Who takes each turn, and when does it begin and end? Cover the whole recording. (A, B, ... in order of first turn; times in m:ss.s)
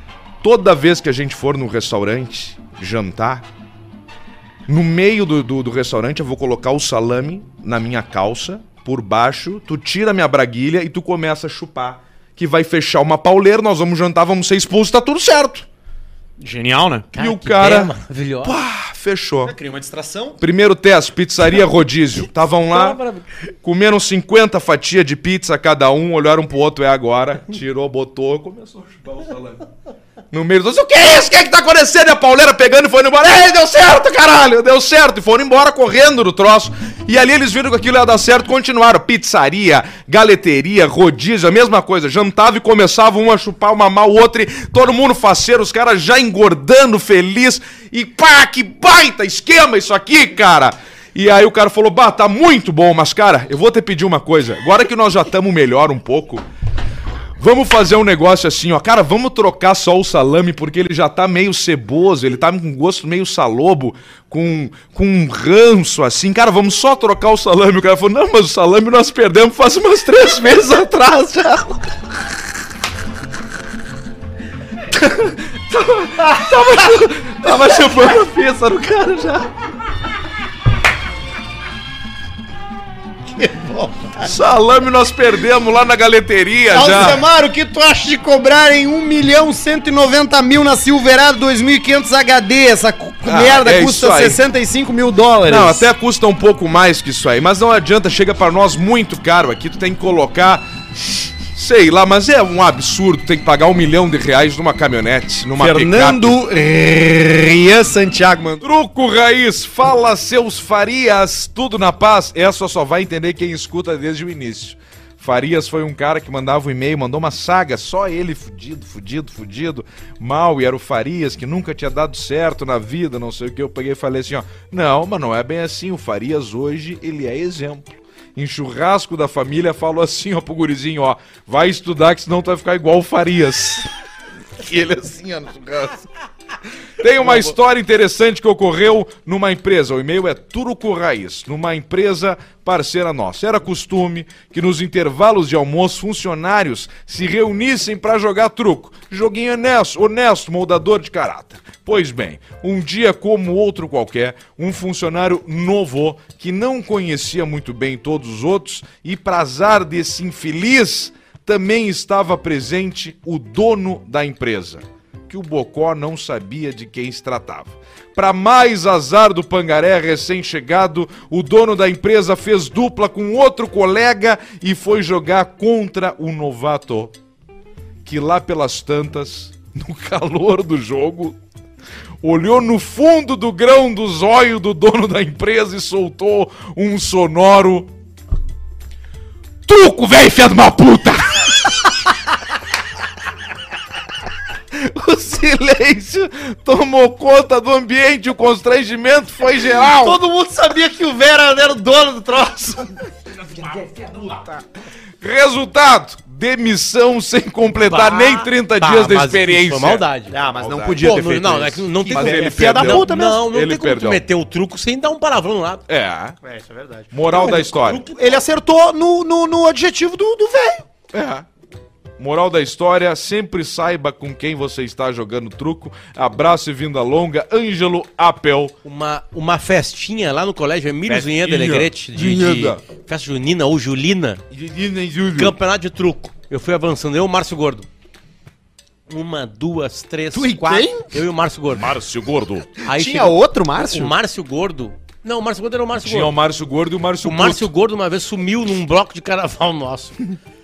0:00.4-0:03.4 A
0:04.7-0:15.7 A
0:16.4-0:17.1 B
0:17.1-0:18.6 C
0:17.2-0:19.5 A
0:19.4-0:20.4 B
0:20.4-0:23.0 A
0:22.7-0:23.3 C
0:23.6-0:29.7 A
0:30.3-0:56.4 A
0:57.4-1:11.8 A
1:14.9-1:19.5 A
1:23.3-1:24.3 B
1:24.2-1:27.2 A
1:26.7-1:35.9 B
1:33.2-1:34.4 A
1:35.5-1:40.6 A
1:41.5-1:46.4 A
1:45.6-1:48.6 B
1:48.6-2:13.9 A
2:14.6-2:16.1 A
2:17.0-2:57.1 A
2:58.0-3:01.4 A
3:02.2-3:07.9 A
3:09.7-3:11.7 A
3:14.7-3:20.2 A
3:19.9-3:24.4 B
3:25.2-3:30.0 A
3:27.8-3:30.4 C
3:30.3-3:33.4 B
3:30.6-3:31.1 A
3:31.0-3:35.8 C
3:32.1-3:34.2 A
3:35.9-3:36.4 A
3:36.4-3:40.9 B
3:37.1-3:38.0 A
3:37.3-3:38.4 C
3:41.1-3:41.5 A
3:42.2-3:48.8 A
3:48.8-3:54.4 C
3:51.1-3:52.8 A
3:54.5-3:55.6 A
3:55.4-3:57.9 C
3:59.1-4:01.9 C
4:00.3-4:01.1 B
4:01.7-4:02.7 A
4:02.8-4:06.3 C
4:02.9-4:04.1 B
4:06.0-4:07.7 A
4:07.2-4:10.2 C